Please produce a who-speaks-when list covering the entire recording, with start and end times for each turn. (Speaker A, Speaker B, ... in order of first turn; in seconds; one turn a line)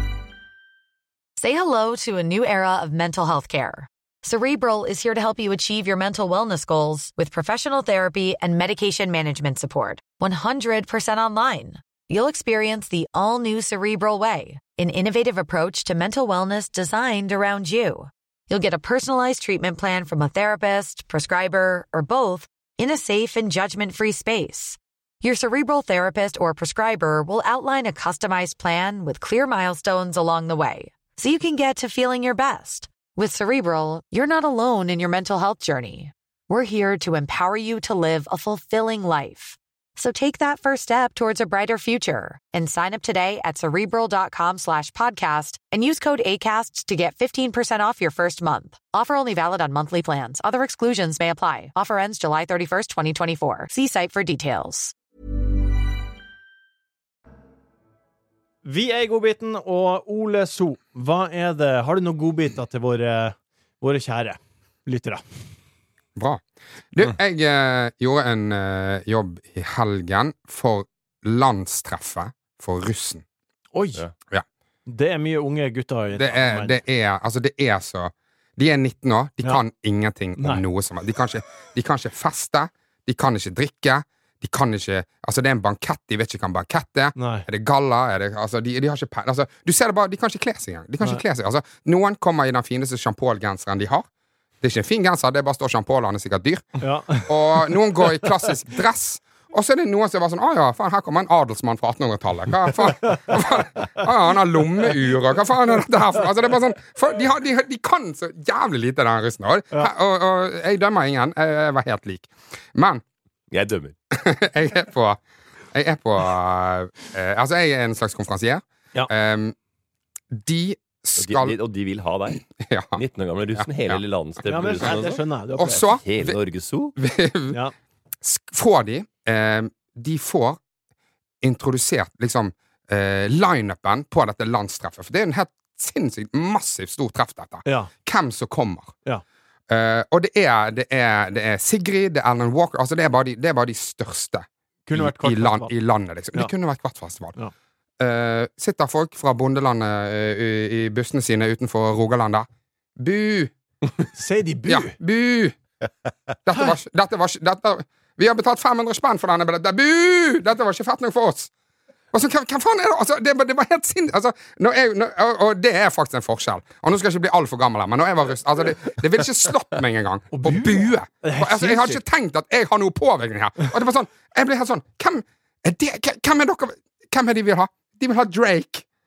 Speaker A: 1.4-54.9
Speaker B: 58.6-65.2
Speaker C: 66.2-73.2
Speaker B: 73.7-74.0
Speaker B: 74.9-76.8
Speaker C: 76.2-94.1
Speaker B: 80.4-80.7
Speaker B: 87.2-87.5
Speaker C: 94.6-113.0
Speaker B: 96.8-98.2
Speaker B: 102.9-104.0
Speaker D: 113.5-113.9
Speaker C: 114.1-115.2
Speaker C: 115.7-119.5
Speaker C: 120.3-121.6
Speaker D: 121.2-122.4
Speaker C: 122.5-123.0
Speaker D: 123.0-125.2
Speaker C: 123.6-124.0
Speaker B: 124.5-125.8
Speaker C: 125.6-126.4
Speaker D: 125.9-127.0
Speaker C: 127.0-127.6
Speaker C: 128.2-130.6
Speaker C: 131.4-138.9
Speaker B: 137.7-137.9
Speaker C: 139.7-147.3
Speaker B: 144.9-145.7
Speaker C: 148.0-153.5
Speaker B: 154.1-154.9
Speaker C: 154.7-155.6
Speaker C: 156.4-161.5
Speaker C: 162.1-178.8
Speaker B: 170.3-172.0